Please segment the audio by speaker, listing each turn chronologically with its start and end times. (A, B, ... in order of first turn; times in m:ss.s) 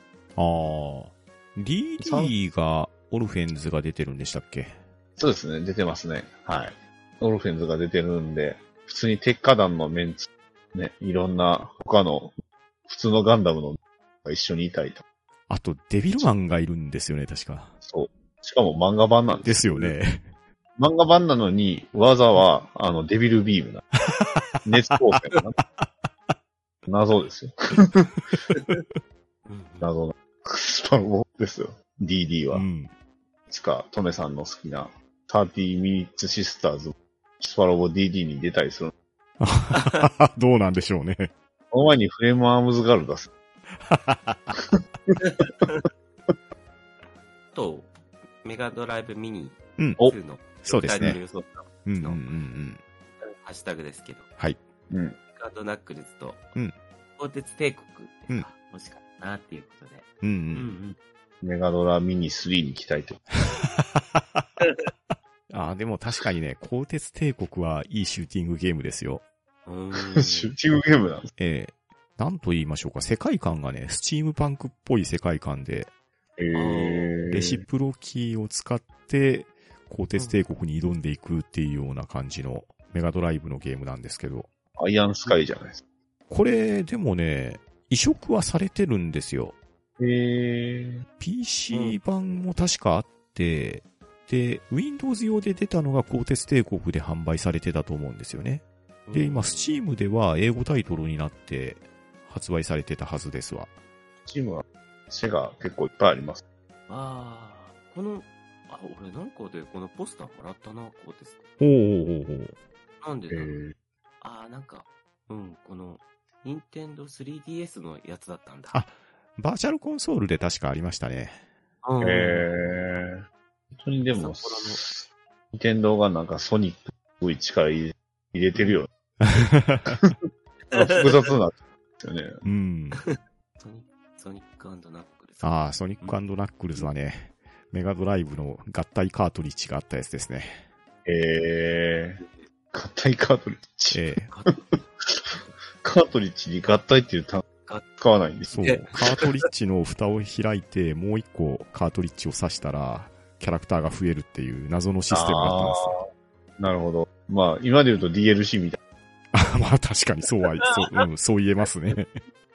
0:00.4-0:04.8 A
0:02.0-0:02.3 B
0:05.2-0:12.3 B
0:12.9-0:15.0 B
0:15.5-0:17.7 A
0:17.8-0:20.0 B
0:19.4-0:20.3 A
0:20.8-0:23.8 B
0:24.1-0:24.7 A
0:24.6-0:25.6 B
0:26.9-0:28.1 B
0:28.5-0:28.8 C
0:29.5-0:29.9 C
0:29.8-0:32.7 B
0:32.5-0:32.9 A
0:33.5-0:38.9 B
0:39.4-0:41.3 A
0:41.7-0:43.3 B
0:43.8-0:44.6 A
0:45.4-0:45.7 C
0:47.5-0:52.3 C
0:49.8-0:51.2 A
0:51.8-0:52.8 A
0:53.2-0:54.3 C
0:54.9-0:55.2 B
0:55.4-0:56.5 C
0:57.2-1:01.0 C
1:00.2-1:00.7 A
1:01.4-1:03.2 B
1:03.5-1:04.6 A
1:05.5-1:09.2 A
1:09.6-1:10.5 C
1:10.0-1:11.3 B
1:11.4-1:15.9 A
1:16.4-1:17.6 B
1:16.5-1:17.2 C
1:17.3-1:24.5 A
1:20.2-1:20.4 C
1:24.8-1:25.8 B
1:26.3-1:29.6 A
1:30.0-1:31.0 B
1:31.2-1:43.7 A
1:31.7-1:32.4 C
1:39.1-1:39.8 C
1:44.3-1:46.4 B
1:46.9-1:51.5 C
1:51.6-1:52.6 A
1:53.0-1:53.6 C
1:53.3-1:53.7 B
1:54.2-1:58.8 C
1:58.7-2:01.4 A
2:01.8-2:02.5 C
2:02.0-2:03.2 B
2:03.8-2:08.9 B
2:04.1-2:04.8 C
2:09.2-2:10.0 A
2:09.9-2:12.4 B
2:10.7-2:11.3 C
2:12.4-2:13.0 A
2:13.0-2:16.2 C
2:15.4-2:20.6 A
2:21.1-2:27.4 B
2:23.9-2:24.3 A
2:24.3-2:24.6 C
2:28.0-2:28.6 B
2:28.5-2:36.0 A
2:28.6-2:29.2 C
2:35.1-2:36.0 B
2:36.6-2:38.8 B
2:39.3-2:42.2 A
2:40.6-2:41.0 C